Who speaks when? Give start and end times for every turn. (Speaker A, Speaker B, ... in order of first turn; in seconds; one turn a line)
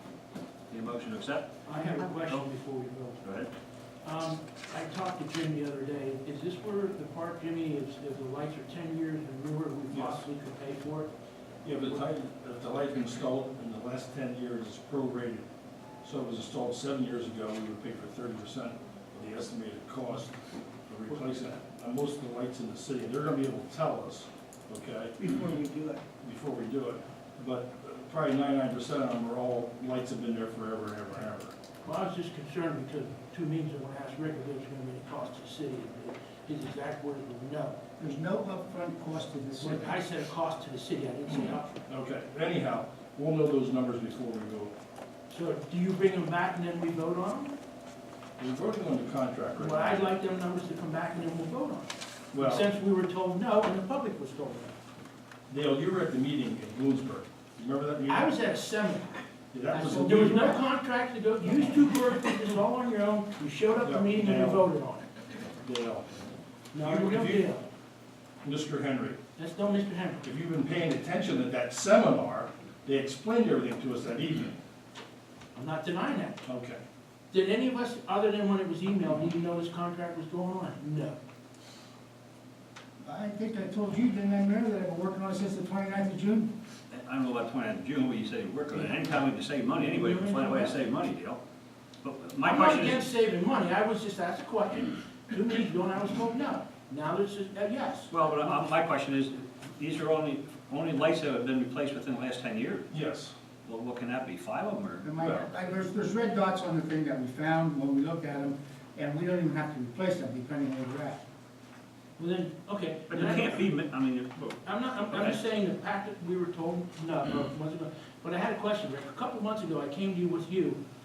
Speaker A: 0.7-2.4
Speaker B: 1.6-3.2
Speaker A: 3.2-3.5
Speaker B: 4.0-11.1
Speaker C: 9.9-10.2
Speaker C: 11.6-15.5
Speaker C: 16.0-25.2
Speaker D: 25.2-26.0
Speaker C: 26.2-31.5
Speaker B: 31.8-37.8
Speaker D: 38.0-40.0
Speaker B: 39.6-41.9
Speaker C: 41.3-44.8
Speaker B: 45.3-47.6
Speaker C: 48.4-50.1
Speaker B: 49.6-54.8
Speaker C: 52.3-52.7
Speaker C: 55.5-58.3
Speaker B: 58.1-59.2
Speaker C: 59.5-60.6
Speaker B: 59.7-65.1
Speaker C: 61.5-61.8
Speaker C: 63.8-64.7
Speaker C: 65.6-66.1
Speaker B: 66.7-67.7
Speaker C: 66.8-67.5
Speaker C: 68.4-69.2
Speaker B: 69.4-70.3
Speaker C: 70.2-74.5
Speaker B: 75.5-76.4
Speaker C: 76.4-76.8
Speaker B: 77.3-81.2
Speaker D: 83.0-86.5
Speaker A: 86.9-91.4
Speaker B: 88.7-89.2
Speaker B: 89.8-90.8
Speaker A: 92.0-93.1
Speaker B: 92.4-98.2
Speaker A: 98.1-102.9
Speaker C: 102.9-103.3
Speaker A: 103.7-105.1
Speaker D: 105.0-111.2
Speaker C: 105.2-105.5
Speaker B: 112.2-113.7
Speaker A: 113.1-115.4
Speaker B: 114.6-120.8